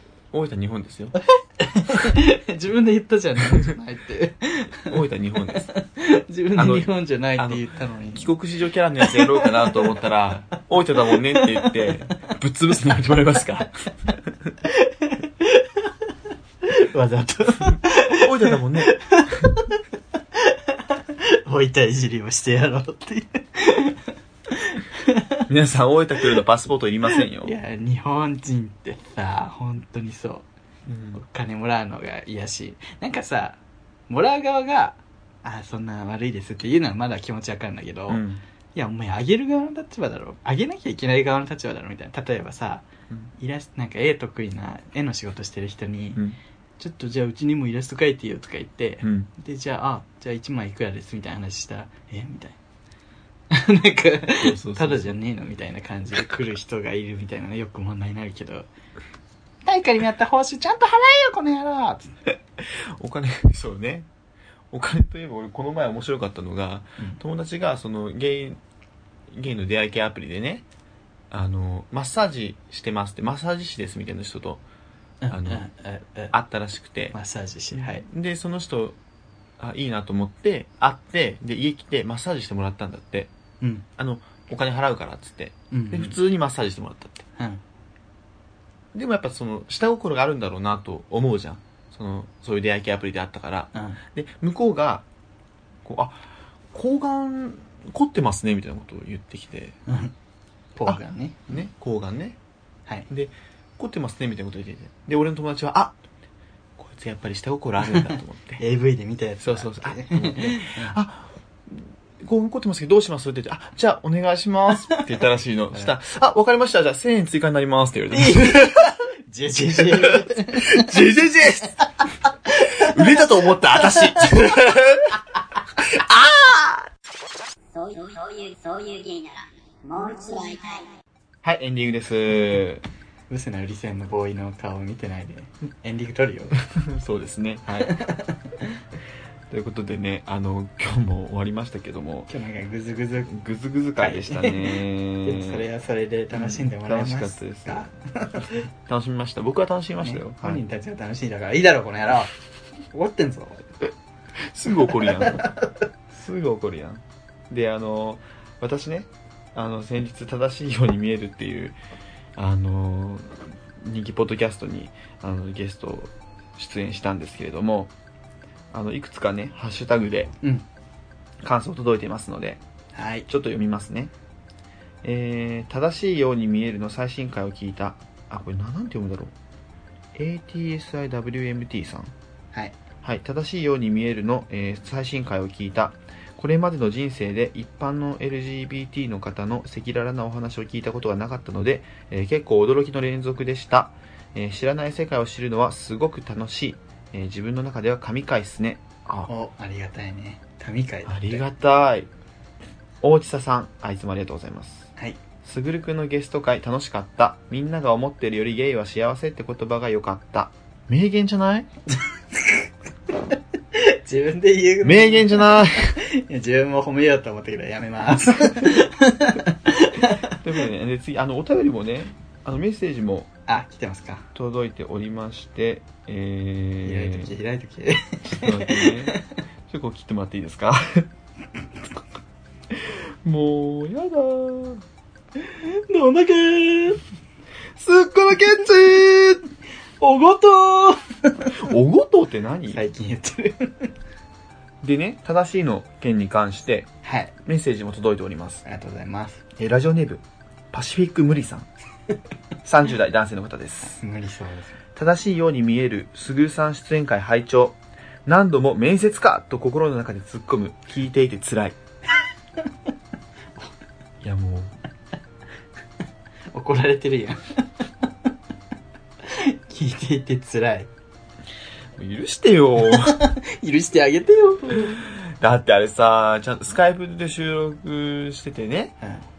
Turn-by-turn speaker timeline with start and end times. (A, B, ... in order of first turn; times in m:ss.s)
0:00.3-0:01.2 A
0:01.6-0:08.3 B
0:04.9-0:05.7 A
0:06.6-0:13.8 A
0:09.0-0:09.9 B
0:11.1-0:12.0 B
0:14.6-0:25.4 B
0:17.6-0:19.5 A
0:25.5-0:27.5 A
0:27.1-0:30.4 B
0:30.9-0:31.2 A
0:31.1-0:38.2 B
0:38.1-0:38.4 A
0:38.7-0:42.9 B
0:43.4-0:46.2 B
0:46.8-0:52.6 B
0:49.0-0:49.3 A
0:53.5-0:58.7 B
0:54.4-0:55.2 A
0:59.6-1:02.2 B
1:02.6-1:04.1 A
1:04.7-1:08.6 A
1:09.3-1:10.6 A
1:11.3-1:14.6 A
1:15.2-1:16.3 B
1:15.3-1:15.6 A
1:16.3-1:17.1 A
1:17.1-1:18.0 B
1:17.7-1:19.0 A
1:19.6-1:23.3 A
1:23.6-1:23.8 B
1:24.0-1:27.2 A
1:25.7-1:26.2 B
1:27.4-1:27.6 B
1:28.9-1:35.0 A
1:33.7-1:34.0 B
1:35.8-1:39.8 A
1:39.9-1:40.1 B
1:40.7-1:41.6 B
1:40.8-1:42.4 A
1:43.1-1:46.0 A
1:46.8-1:48.6 A
1:47.8-1:51.0 B
1:49.4-1:59.0 A
1:58.1-2:01.0 B
1:59.7-2:01.8 A
2:02.5-2:03.3 B
2:02.5-2:05.1 A
2:03.8-2:04.7 B
2:05.8-2:06.8 A
2:07.7-2:10.9 C
2:11.4-2:12.8 A
2:13.3-2:16.5 B
2:16.7-2:17.9 A
2:17.8-2:18.8 B
2:19.5-2:22.3 A
2:22.3-2:23.3 B
2:23.3-2:25.6 A
2:24.0-2:28.6 B
2:26.3-2:27.8 A
2:28.5-2:30.6 A
2:30.0-2:32.4 B
2:32.9-2:33.6 B
2:34.4-2:35.5 A
2:34.8-2:35.6 B
2:36.1-2:41.8 A
2:42.4-2:47.9 A
2:48.7-2:50.3 A
2:51.4-2:52.6 A
2:52.9-2:53.3 B
2:53.3-2:54.1 A
2:55.0-2:59.3 A
3:00.1-3:02.1 A
3:03.0-3:19.3 A
3:19.3-3:21.4 B
3:21.0-3:22.1 A
3:23.0-3:24.9 A
3:25.4-3:31.7 A
3:31.9-3:40.3 B
3:34.8-3:36.0 A
3:40.3-3:43.3 A
3:43.5-3:44.2 B
3:44.3-3:47.3 A
3:46.8-3:49.2 B
3:48.3-3:49.2 A
3:49.7-3:51.1 A
3:52.7-3:54.8 A
3:55.4-3:57.0 B
3:57.8-3:59.4 A
4:00.0-4:01.6 B
4:01.5-4:02.8 A
4:02.7-4:03.9 B
4:04.8-4:06.9 A
4:07.0-4:07.3 B
4:07.4-4:08.6 A
4:08.6-4:09.4 B
4:09.6-4:11.7 A
4:12.6-4:14.0 A
4:13.9-4:14.8 B
4:14.9-4:21.8 A
4:24.2-4:24.7 A
4:26.5-4:28.1 B
4:29.2-4:30.9 B
4:32.0-4:33.3 A
4:32.8-4:35.0 B
4:34.9-4:39.0 A